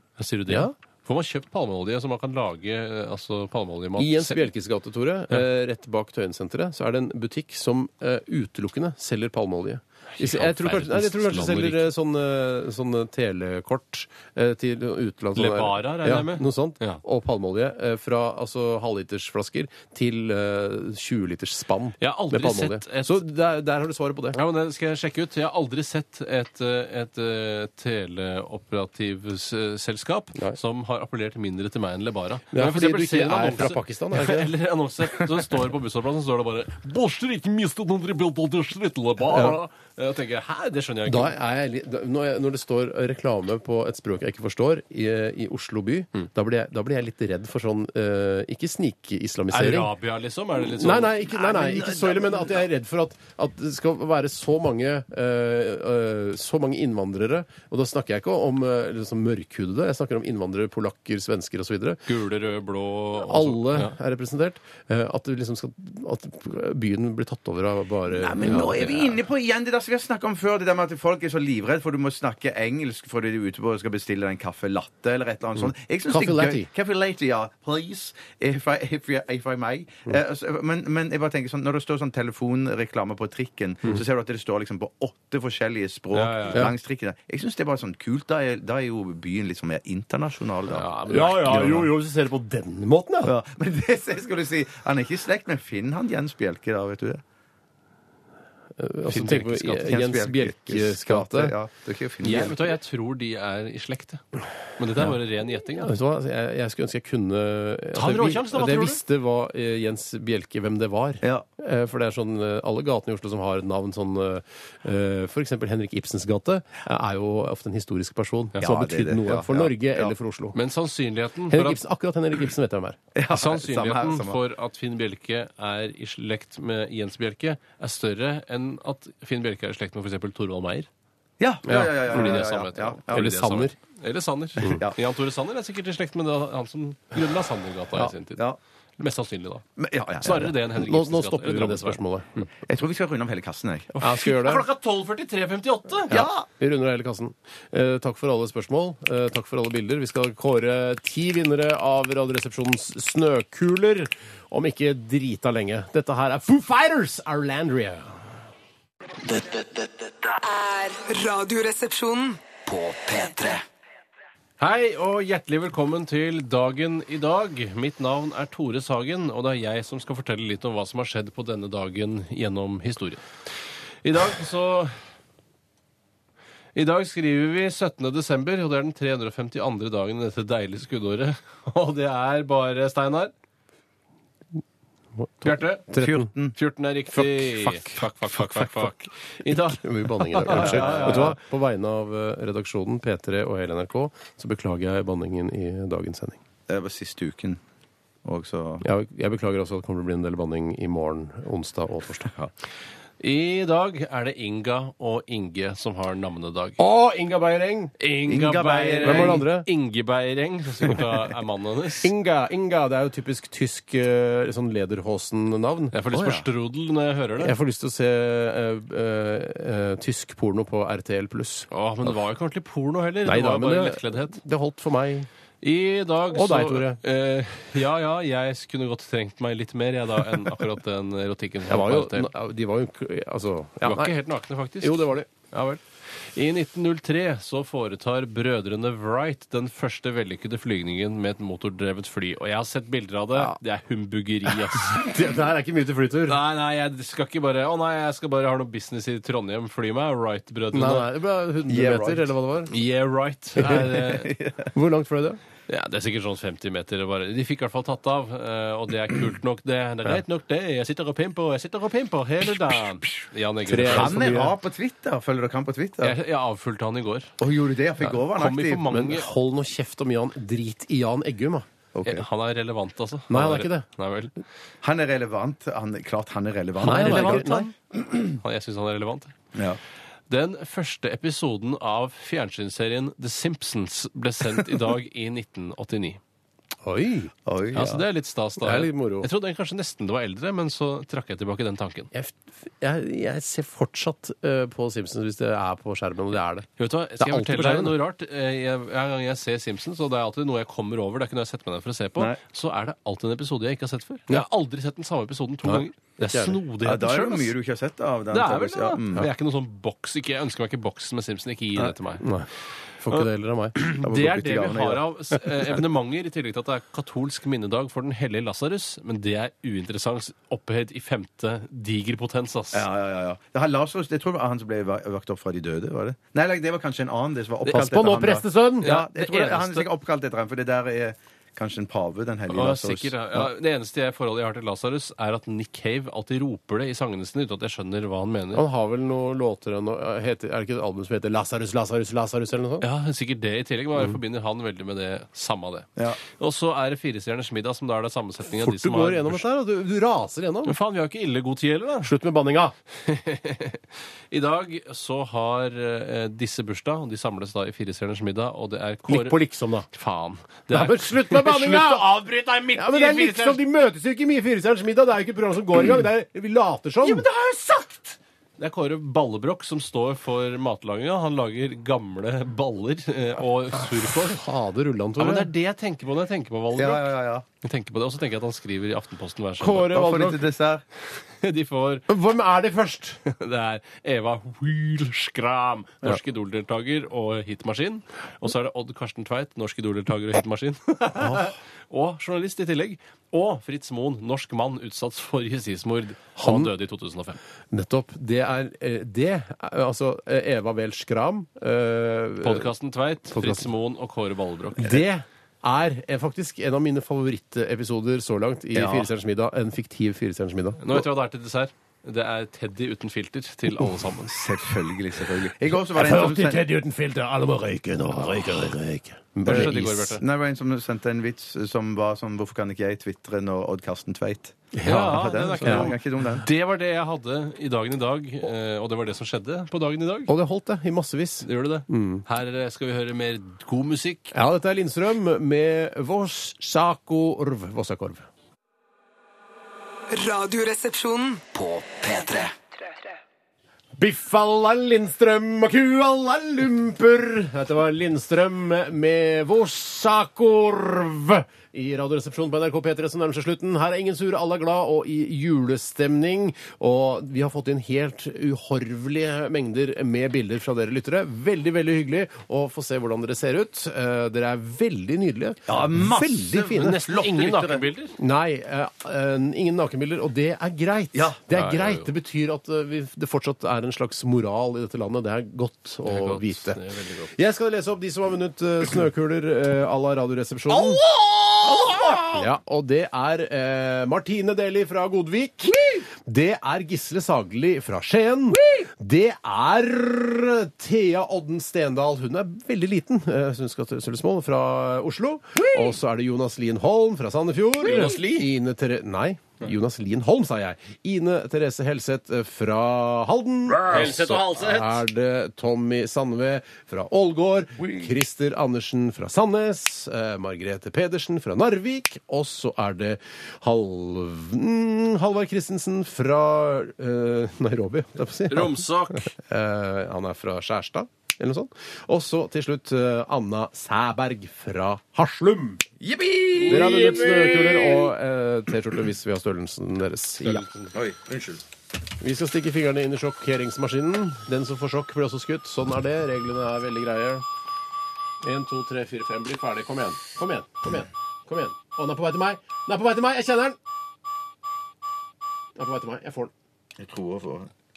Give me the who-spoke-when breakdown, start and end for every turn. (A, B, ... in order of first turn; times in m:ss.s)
0:00.2-0:04.5 A
0:00.5-0:00.7 B
0:04.0-0:24.4 B
0:10.2-0:11.9 A
0:15.4-0:17.0 A
0:22.0-0:23.2 A
0:24.3-0:41.4 A
0:32.5-0:34.5 B
0:39.3-0:39.6 B
0:41.1-0:49.9 B
0:49.5-0:51.2 A
0:50.6-1:02.0 B
0:51.3-0:52.6 C
1:02.1-1:03.9 A
1:03.2-1:08.9 B
1:08.1-1:31.8 C
1:08.4-1:09.1 A
1:16.1-1:16.7 B
1:26.1-1:26.7 A
1:30.7-1:31.9 A
1:31.0-1:33.3 B
1:33.2-1:37.2 C
1:38.8-1:41.6 B
1:39.1-1:40.0 A
1:39.8-1:42.7 C
1:42.2-1:44.2 A
1:44.8-1:45.9 A
1:45.8-2:00.6 B
1:47.9-1:49.0 A
1:58.6-2:00.1 C
2:00.5-2:01.8 A
2:01.5-2:03.0 B
2:03.2-2:04.4 C
2:03.3-2:10.9 A
2:11.4-2:13.4 C
2:11.7-2:12.4 B
2:12.0-2:18.4 A
2:13.1-2:13.8 B
2:14.6-2:15.0 C
2:19.0-2:19.7 A
2:19.8-2:20.5 C
2:20.2-2:22.0 A
2:20.3-2:22.4 B
2:22.6-2:24.2 C
2:24.0-2:24.6 B
2:24.0-2:26.1 A
2:26.1-2:26.4 C
2:26.1-2:38.2 B
2:39.2-2:40.4 D
2:40.4-2:42.4 E
2:42.6-2:43.6 D
2:44.6-2:53.3 A
2:54.0-2:54.9 A
2:56.7-3:03.3 A
3:05.2-3:06.3 B
3:05.4-3:05.9 A
3:05.9-3:06.6 C
3:06.6-3:11.4 A
3:07.1-3:08.9 B
3:09.4-3:16.4 B
3:10.5-3:11.4 C
3:16.7-3:17.6 C
3:18.2-3:18.8 C
3:18.8-3:22.5 B
3:23.2-3:26.8 A
3:26.8-3:27.9 B
3:28.0-3:32.1 A
3:28.3-3:29.4 C
3:29.0-3:29.7 B
3:32.0-3:36.0 B
3:35.9-3:37.6 A
3:36.1-3:36.4 C
3:37.4-3:41.7 B
3:41.7-3:44.4 A
3:43.2-3:45.3 B
3:45.6-3:52.3 A
3:46.3-3:47.0 B
3:51.7-3:54.2 B
3:53.8-4:05.1 A
3:54.8-3:55.3 B
4:04.7-4:06.4 B
4:06.3-4:11.1 A
4:10.7-4:12.7 B
4:11.7-4:12.3 C
4:12.7-4:14.3 A
4:13.6-4:13.9 B
4:13.6-4:14.7 C
4:14.7-4:15.4 B
4:15.7-4:24.4 A
4:23.7-4:24.6 B
4:23.8-4:26.2 C
4:26.0-4:27.3 A
4:27.4-4:28.9 C
4:28.0-4:29.4 A
4:28.9-4:31.7 B
4:32.0-4:32.3 C
4:32.0-4:34.3 A
4:33.3-4:33.9 B
4:34.8-4:38.4 C
4:36.8-4:37.7 B
4:36.8-4:37.7 A
4:38.4-4:39.4 A
4:40.3-4:46.2 A
4:46.8-4:47.3 B
4:47.5-4:48.0 C
4:47.7-4:52.1 A
4:48.6-4:49.3 B
4:52.1-4:56.7 B
4:56.8-5:07.5 A
4:57.2-4:58.0 B
5:05.6-5:06.6 B
5:06.8-5:09.3 C
5:08.3-5:12.2 A
5:12.2-5:12.5 B
5:13.0-5:13.8 B
5:13.8-5:22.9 A
5:13.9-5:15.0 C
5:22.7-5:33.2 C
5:27.7-5:28.9 B
5:28.8-5:29.9 A
5:32.5-5:38.6 A
5:38.5-5:42.9 B
5:42.8-5:49.4 A
5:48.5-5:50.8 B
5:50.6-5:52.1 A
5:52.0-5:52.8 B
5:53.0-5:59.4 A
5:59.1-5:59.9 B
5:59.9-6:03.6 A
6:00.7-6:02.1 B
6:02.8-6:07.3 B
6:07.0-6:14.4 A
6:13.9-6:15.5 B
6:15.2-6:17.1 A
6:16.8-6:17.4 C
6:17.6-6:20.2 A
6:19.6-6:20.4 B
6:19.7-6:20.8 C
6:21.0-6:22.1 A
6:22.1-6:23.2 B
6:23.2-6:37.4 A
6:31.2-6:31.5 C
6:36.4-6:36.7 B
6:37.7-6:42.7 B
6:42.4-6:45.1 A
6:43.3-6:43.7 B
6:44.8-6:51.0 B
6:48.7-6:49.1 C
6:50.8-6:54.3 A
6:54.1-6:56.7 C
6:55.9-7:00.2 B
6:59.4-7:00.2 A
6:59.5-7:06.5 C
7:04.7-7:05.9 B
7:04.8-7:10.3 A
7:10.3-7:12.2 B
7:11.4-7:14.3 A
7:14.3-7:18.3 B
7:20.1-7:21.4 E
7:21.5-7:22.5 D
7:24.0-7:47.0 B
7:45.7-7:47.9 C
7:46.7-7:48.2 A
7:48.2-8:01.0 B
7:51.1-7:51.4 C
7:51.5-7:52.1 A
7:56.0-7:57.3 A
8:01.0-8:02.3 C
8:02.2-8:45.8 B
8:17.8-8:18.5 A
8:18.0-8:18.3 C
8:23.8-8:25.0 A
8:38.5-8:39.3 A
8:46.0-8:47.6 C
8:46.6-8:48.0 A
8:46.6-8:50.7 B
8:50.4-8:51.0 A
8:50.9-8:51.6 C
8:52.2-8:57.5 B
8:58.4-9:03.8 B
9:05.8-9:06.5 B
9:07.0-9:07.7 C